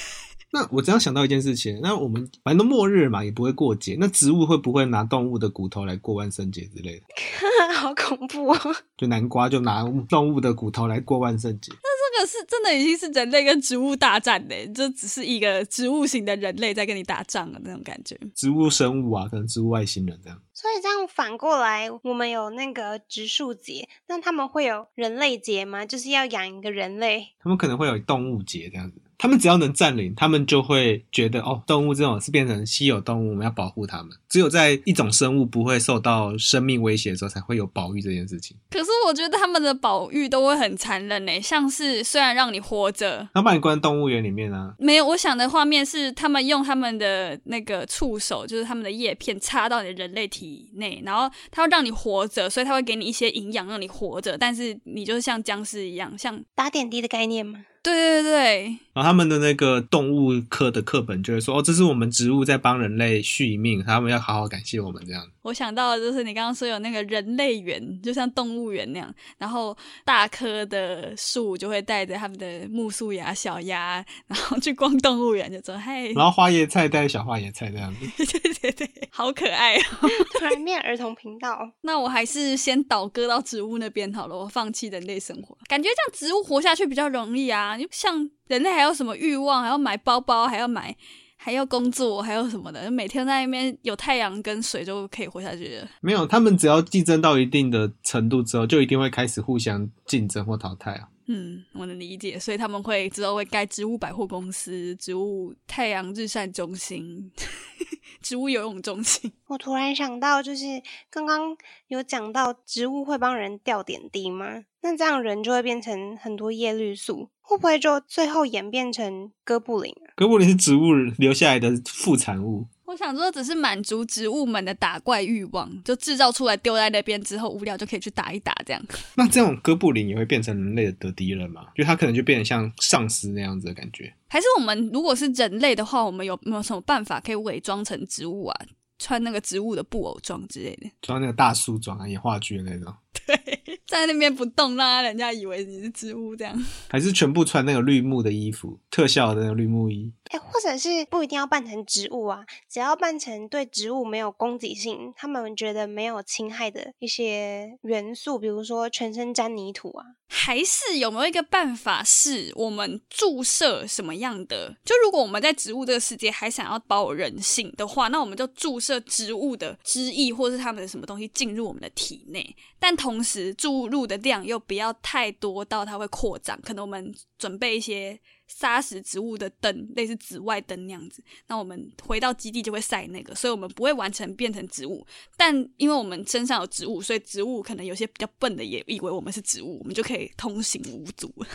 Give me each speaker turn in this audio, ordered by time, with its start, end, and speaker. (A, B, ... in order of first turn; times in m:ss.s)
0:00.5-0:07.0 A
0:07.2-0:08.8 B
0:09.0-0:11.8 A
0:11.8-0:18.3 C
0:18.4-0:20.4 A
0:20.6-0:27.3 B
0:27.4-0:38.6 A
0:38.7-0:43.3 C
0:43.3-0:44.8 A
0:44.8-0:56.4 C
0:56.6-0:57.6 B
0:57.8-0:58.8 C
0:59.0-1:05.3 A
1:05.4-1:16.2 C
1:16.2-1:18.1 A
1:18.1-1:20.5 C
1:20.2-1:21.7 B
1:21.8-1:35.9 C
1:36.0-1:41.1 A
1:41.3-1:47.3 C
1:48.2-1:49.3 C
1:49.5-2:00.1 B
2:00.2-2:02.7 A
2:02.9-2:08.9 C
2:09.2-2:14.1 A
2:14.3-2:20.9 C
2:21.0-2:23.0 A
2:23.2-2:26.6 C
2:26.9-2:30.2 A
2:30.3-2:40.1 B
2:40.3-3:11.4 C